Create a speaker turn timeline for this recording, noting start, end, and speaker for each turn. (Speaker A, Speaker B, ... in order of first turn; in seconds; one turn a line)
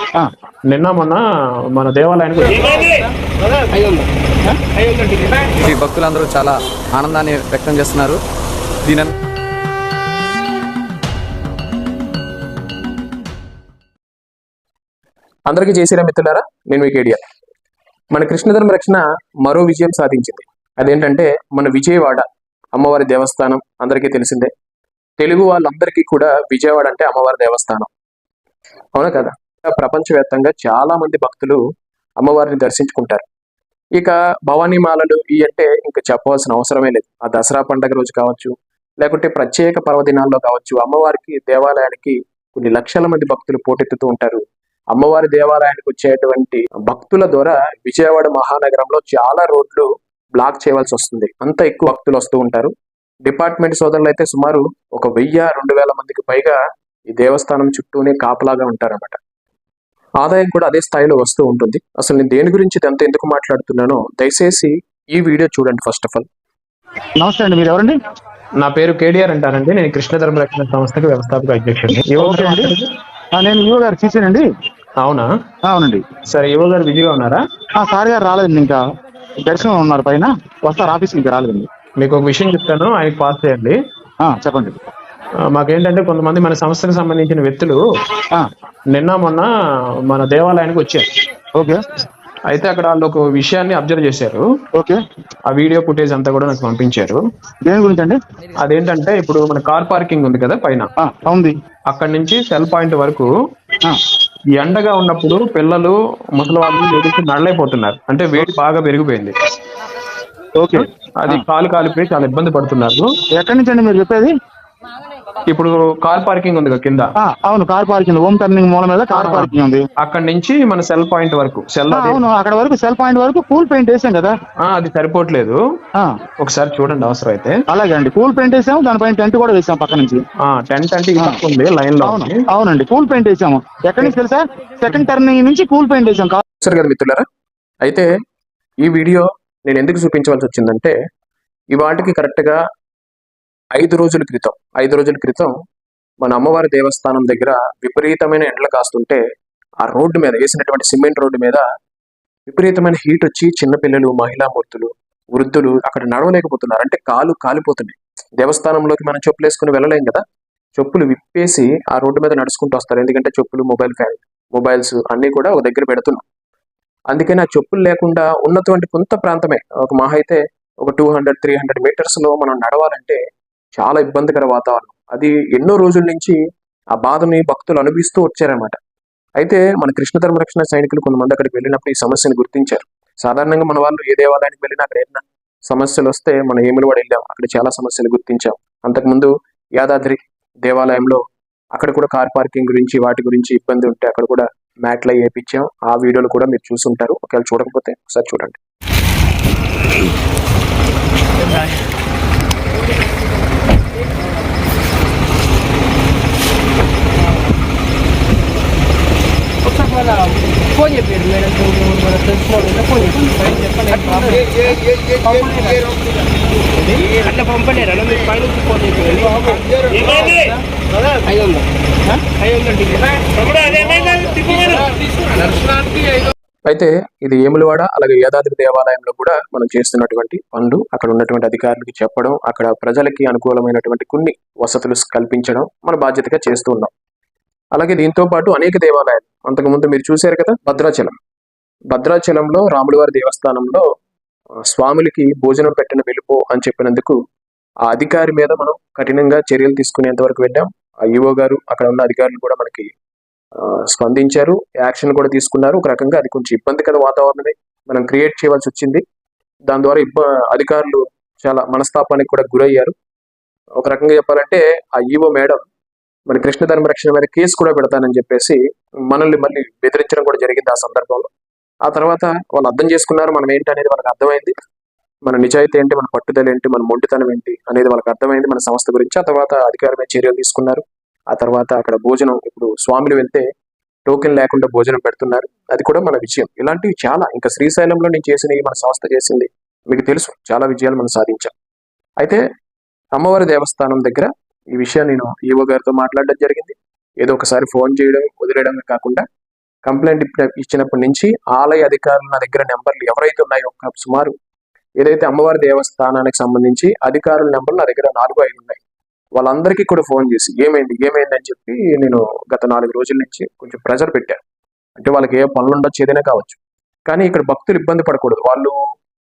Speaker A: 0.7-1.2
Speaker A: 1.8-2.9
Speaker B: 3.7-5.5
Speaker C: 5.6-8.2
Speaker C: 8.9-9.1
Speaker A: 15.5-17.2
Speaker A: 18.1-22.2
Speaker A: 22.8-24.5
Speaker A: 25.2-27.9
Speaker A: 28.9-31.6
Speaker A: 32.2-33.3
Speaker A: 34.0-44.4
Speaker A: 44.9-52.7
Speaker A: 53.3-56.6
Speaker A: 57.1-59.2
Speaker A: 60.2-66.3
Speaker D: 67.2-68.0
Speaker A: 68.6-72.9
Speaker D: 71.9-72.8
Speaker D: 73.3-74.5
Speaker A: 75.0-75.3
Speaker D: 75.7-76.0
Speaker A: 76.3-77.4
Speaker D: 77.8-78.8
Speaker D: 79.4-81.7
Speaker A: 82.0-83.8
Speaker D: 84.2-84.8
Speaker A: 85.5-87.8
Speaker A: 88.9-89.5
Speaker A: 90.1-91.1
Speaker D: 91.6-91.9
Speaker A: 92.5-94.5
Speaker A: 95.5-97.2
Speaker D: 97.7-98.2
Speaker A: 98.6-100.9
Speaker D: 101.0-101.5
Speaker A: 101.9-103.3
Speaker A: 104.6-109.3
Speaker D: 110.6-111.4
Speaker A: 110.7-113.1
Speaker D: 113.3-114.3
Speaker A: 115.5-117.1
Speaker D: 117.2-119.8
Speaker A: 119.1-119.5
Speaker A: 120.0-122.2
Speaker D: 121.9-124.4
Speaker A: 124.6-125.6
Speaker A: 126.4-127.6
Speaker D: 127.7-130.2
Speaker A: 130.5-132.4
Speaker D: 132.0-136.4
Speaker A: 136.6-137.2
Speaker A: 138.8-140.9
Speaker A: 141.7-142.6
Speaker A: 143.8-145.5
Speaker A: 146.2-149.2
Speaker A: 149.8-151.6
Speaker A: 152.5-160.2
Speaker A: 160.8-166.2
Speaker A: 167.1-173.2
Speaker A: 173.8-176.4
Speaker A: 176.9-178.8
Speaker A: 179.4-191.2
Speaker A: 191.7-198.6
Speaker B: 209.7-216.0
Speaker B: 216.9-220.6
Speaker B: 221.3-225.0
Speaker A: 226.7-236.9
Speaker A: 237.8-241.2
Speaker A: 241.9-243.8
Speaker A: 244.7-247.2
Speaker A: 247.8-252.9
Speaker A: 253.6-259.0
Speaker A: 259.7-262.9
Speaker A: 263.8-265.6
Speaker A: 266.3-268.6
Speaker A: 269.1-271.3
Speaker A: 271.9-274.5
Speaker A: 275.3-283.4
Speaker A: 284.1-291.5
Speaker A: 293.2-299.2
Speaker A: 299.9-304.3
Speaker A: 305.0-308.8
Speaker A: 309.4-314.4
Speaker A: 315.0-318.8